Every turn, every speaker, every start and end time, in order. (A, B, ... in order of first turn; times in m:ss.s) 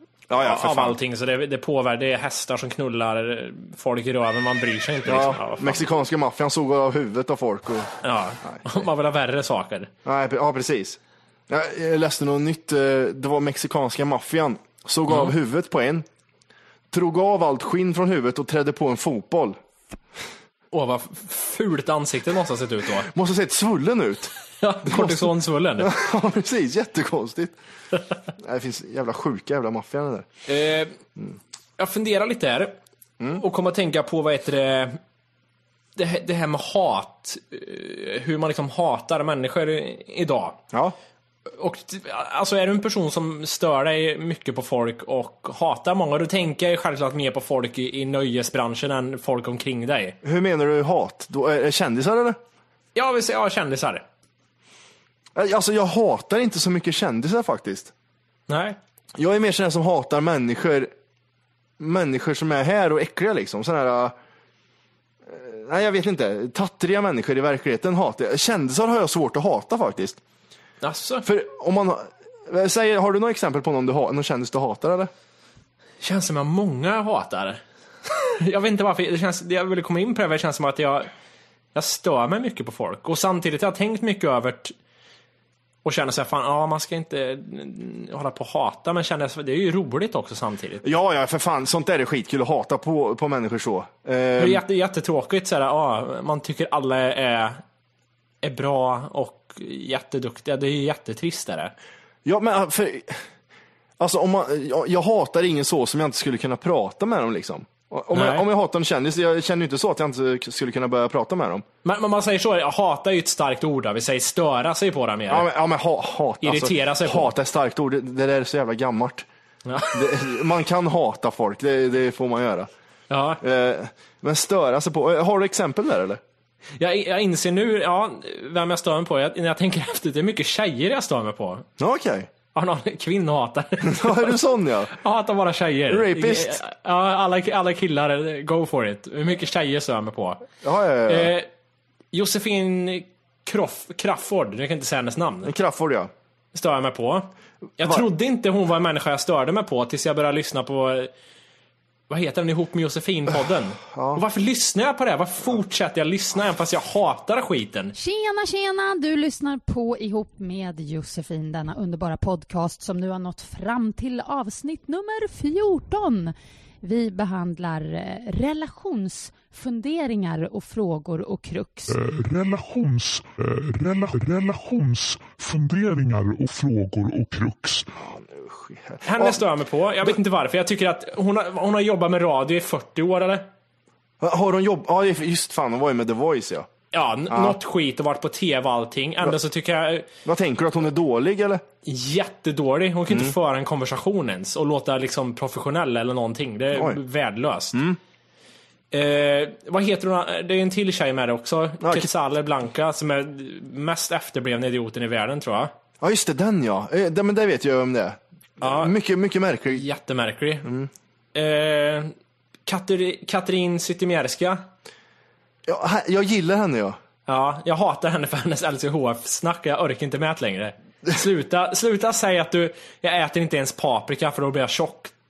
0:00.3-0:01.0 A
0:00.4-0:05.9 B
0:05.0-0:08.7 A
0:08.0-0:09.9 B
0:10.0-0:16.0 A
0:16.9-0:19.6 A
0:20.7-0:23.1 B
0:23.1-0:24.3 A
0:24.6-0:25.9 B
0:24.8-0:27.5 A
0:28.4-0:30.3 A
0:30.5-0:31.0 B
0:31.8-0:32.8 B
0:33.4-0:35.0 B
0:36.0-0:40.6 B
0:41.6-0:50.2 B
0:50.2-0:52.4 A
0:52.9-0:54.0 B
0:55.3-0:57.9 A
0:58.5-0:58.8 B
0:59.2-1:00.9 A
1:01.8-1:04.1 A
1:05.3-1:10.2 A
1:10.8-1:11.2 B
1:11.2-1:15.1 A
1:16.0-1:21.1 B
1:21.7-1:24.7 B
1:25.8-1:30.8 B
1:30.8-1:34.6 A
1:34.4-1:37.6 B
1:38.4-1:41.7 B
1:42.2-1:43.2 A
1:44.0-1:51.6 A
1:48.1-1:48.4 B
1:51.8-1:55.5 B
1:55.3-1:59.2 A
1:56.4-1:57.3 B
1:59.7-2:00.0 B
1:59.9-2:02.7 A
2:03.1-2:03.4 B
2:03.4-2:06.2 A
2:06.8-2:11.7 B
2:11.8-2:12.3 A
2:12.5-2:14.4 B
2:13.8-2:14.9 A
2:15.0-2:20.5 B
2:15.9-2:16.6 A
2:20.6-2:21.3 A
2:21.1-2:21.5 B
2:22.1-2:25.5 B
2:25.4-2:26.1 A
2:26.5-2:31.1 B
2:32.1-2:37.9 B
2:33.9-2:34.2 A
2:38.0-2:51.9 C
2:51.9-2:57.9 D
2:58.0-2:59.4 A
2:59.0-3:03.5 B
3:04.2-3:06.7 A
3:06.9-3:10.1 B
3:07.3-3:07.6 A
3:10.2-3:11.6 A
3:11.8-3:17.8 B
3:13.1-3:13.3 A
3:16.7-3:17.0 A
3:18.9-3:25.7 B
3:21.8-3:22.1 A
3:26.0-3:29.8 A
3:28.6-3:28.9 B
3:29.7-3:30.7 B
3:30.6-3:30.9 A
3:31.3-3:32.1 B
3:32.6-3:34.6 B
3:35.6-3:37.0 A
3:37.3-3:45.1 B